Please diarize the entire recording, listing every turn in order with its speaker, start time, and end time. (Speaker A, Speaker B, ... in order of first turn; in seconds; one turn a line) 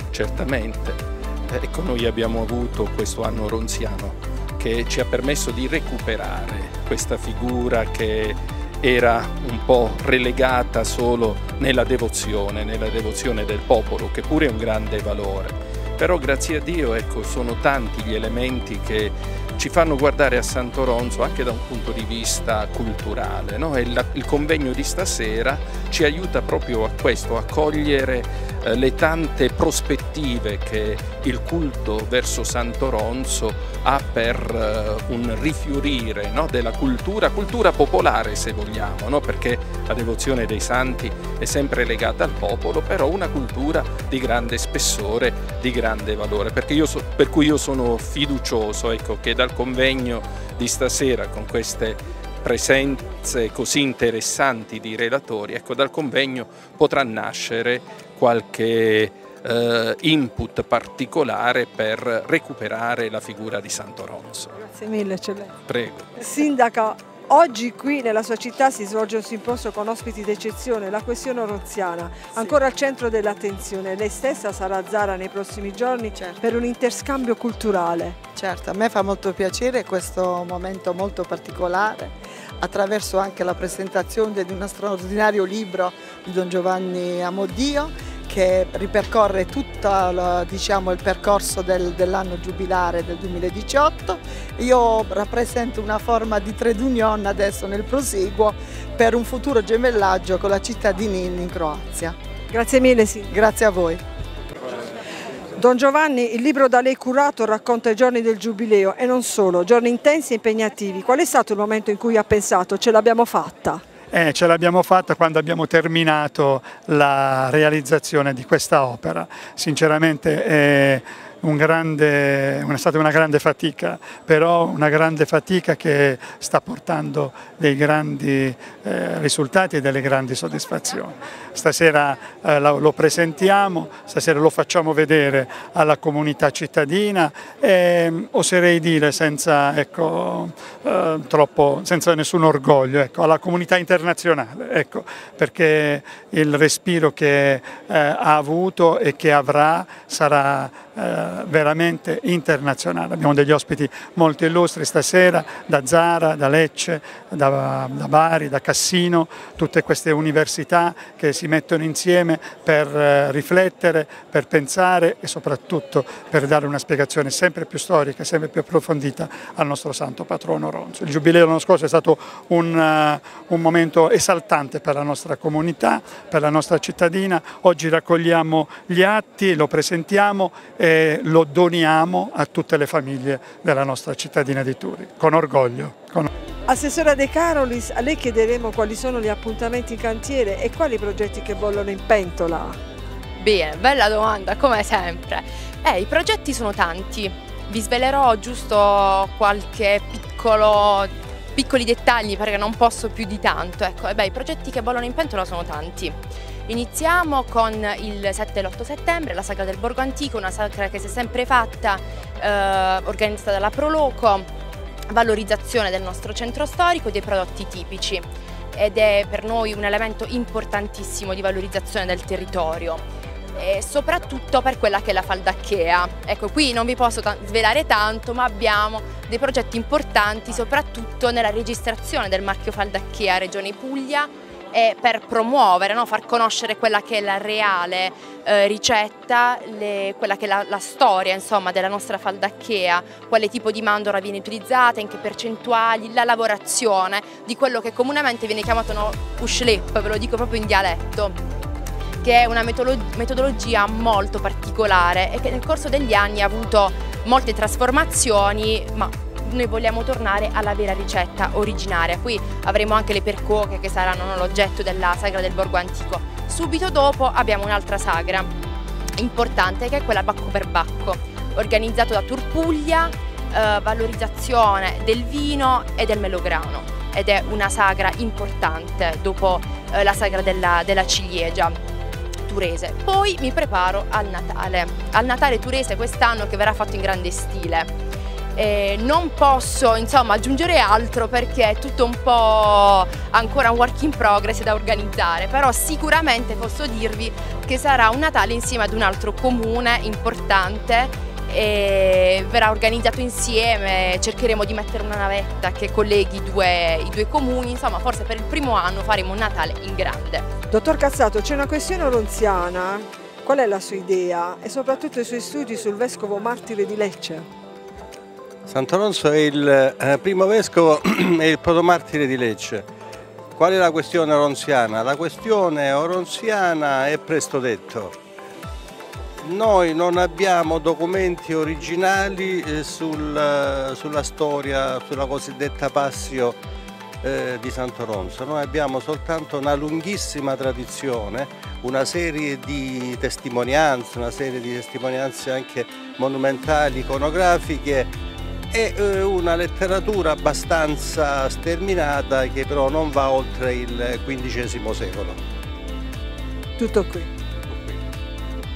Speaker A: 0.1-64.6
Speaker B: 64.8-65.5
Speaker A: 65.7-66.1
Speaker B: 66.2-78.2
Speaker C: 76.1-76.4
Speaker C: 78.4-102.2
Speaker B: 102.5-103.2
Speaker C: 103.3-104.0
Speaker B: 105.6-113.8
Speaker D: 114.1-186.3
Speaker B: 186.7-192.7
Speaker E: 193.4-214.5
Speaker E: 215.1-223.0
Speaker E: 223.6-251.4
Speaker E: 252.2-268.5
Speaker E: 269.2-281.8
Speaker E: 282.5-287.9
Speaker E: 288.6-310.5
Speaker B: 310.7-317.4
Speaker F: 318.7-322.9
Speaker F: 323.6-328.1
Speaker F: 329.4-336.6
Speaker F: 337.2-348.1
Speaker F: 348.7-355.4
Speaker B: 356.8-357.3
Speaker F: 357.7-358.0